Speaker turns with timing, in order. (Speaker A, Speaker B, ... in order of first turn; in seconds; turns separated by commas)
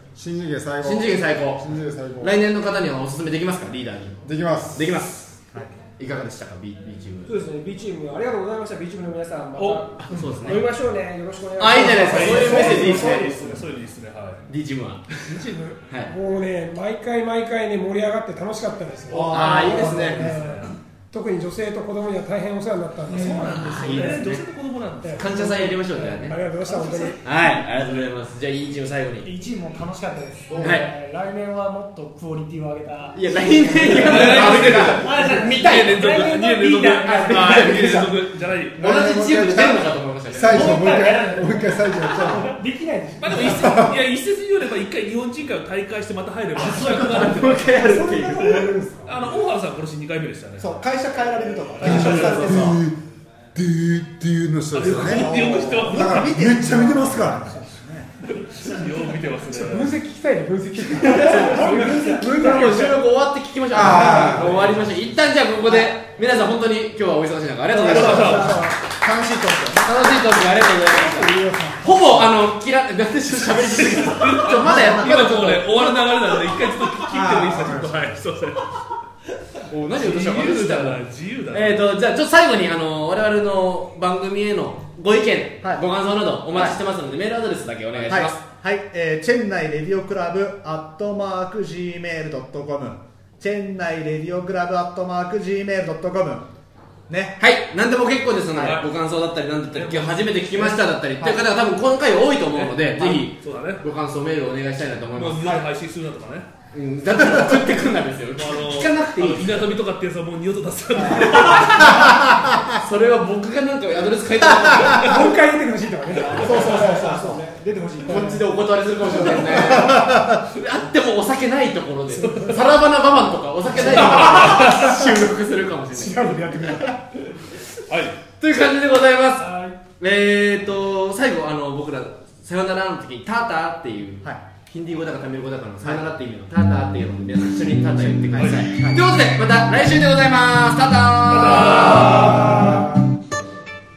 Speaker A: 0.1-2.4, Speaker B: 0.8-1.7, Speaker B: 2.2-4.2, Speaker A: 4.2-5.0, Speaker B: 4.8-5.4, Speaker B: 6.0-7.4, Speaker C: 7.2-13.7, Speaker D: 9.6-9.8, Speaker B: 10.0-10.7, Speaker B: 11.6-13.4, Speaker D: 12.0-14.4, Speaker B: 14.5-16.1, Speaker E: 15.3-24.3, Speaker F: 19.1-20.6, Speaker D: 19.1-20.7, Speaker C: 19.1-20.3, Speaker B: 19.3-20.4, Speaker D: 23.1-25.8, Speaker F: 23.1-23.4, Speaker B: 23.5-24.5, Speaker E: 25.0-27.3, Speaker B: 25.1-26.4, Speaker C: 26.8-27.1, Speaker B: 27.2-29.3, Speaker G: 29.2-37.8, Speaker F: 30.5-30.9, Speaker B: 30.6-30.9, Speaker B: 33.1-36.3, Speaker D: 33.9-38.8, Speaker B: 37.1-41.0, Speaker A: 38.8-42.6, Speaker G: 40.5-43.9, Speaker D: 43.2-47.8, Speaker A: 43.4-44.0, Speaker G: 46.5-47.5, Speaker B: 46.9-48.6, Speaker A: 47.8-49.4, Speaker D: 49.0-50.8, Speaker F: 50.6-52.8, Speaker D: 51.4-52.7, Speaker A: 51.8-53.0, Speaker A: 53.5-57.6, Speaker D: 54.7-56.4, Speaker F: 54.8-58.1, Speaker D: 58.3-59.9, Speaker E: 59.5-63.1, Speaker B: 61.0-68.6, Speaker A: 63.7-64.7, Speaker F: 63.8-64.7, Speaker D: 64.4-64.8, Speaker F: 65.7-66.0, Speaker F: 67.7-70.1, Speaker D: 67.8-68.6, Speaker B: 69.8-75.7, Speaker A: 70.7-72.3, Speaker D: 73.6-78.8, Speaker F: 74.4-76.1, Speaker A: 77.1-78.1, Speaker F: 77.2-77.8, Speaker B: 79.7-88.5, Speaker D: 80.0-81.9, Speaker F: 85.6-85.9, Speaker F: 86.5-86.8, Speaker F: 88.0-96.5, Speaker F: 97.1-97.4, Speaker B: 97.4-105.6, Speaker D: 98.5-98.9, Speaker D: 99.7-101.4, Speaker D: 102.3-103.8, Speaker D: 105.2-106.5, Speaker B: 106.7-109.7, Speaker D: 108.3-112.5, Speaker B: 111.2-115.3, Speaker E: 114.9-117.2, Speaker C: 116.2-118.5, Speaker F: 116.2-117.5, Speaker B: 118.1-126.8, Speaker E: 118.1-118.4, Speaker C: 119.3-119.6, Speaker F: 119.6-120.4, Speaker E: 122.1-122.8, Speaker F: 123.7-124.5, Speaker D: 123.8-124.9, Speaker E: 124.7-125.0, Speaker E: 125.9-127.0, Speaker D: 127.9-128.2, Speaker B: 128.4-142.8, Speaker G: 129.4-129.8, Speaker F: 134.2-134.5, Speaker F: 135.8-136.1, Speaker F: 138.3-139.2, Speaker D: 138.4-138.6, Speaker D: 141.2-142.8, Speaker F: 141.7-142.8, Speaker A: 142.1-142.8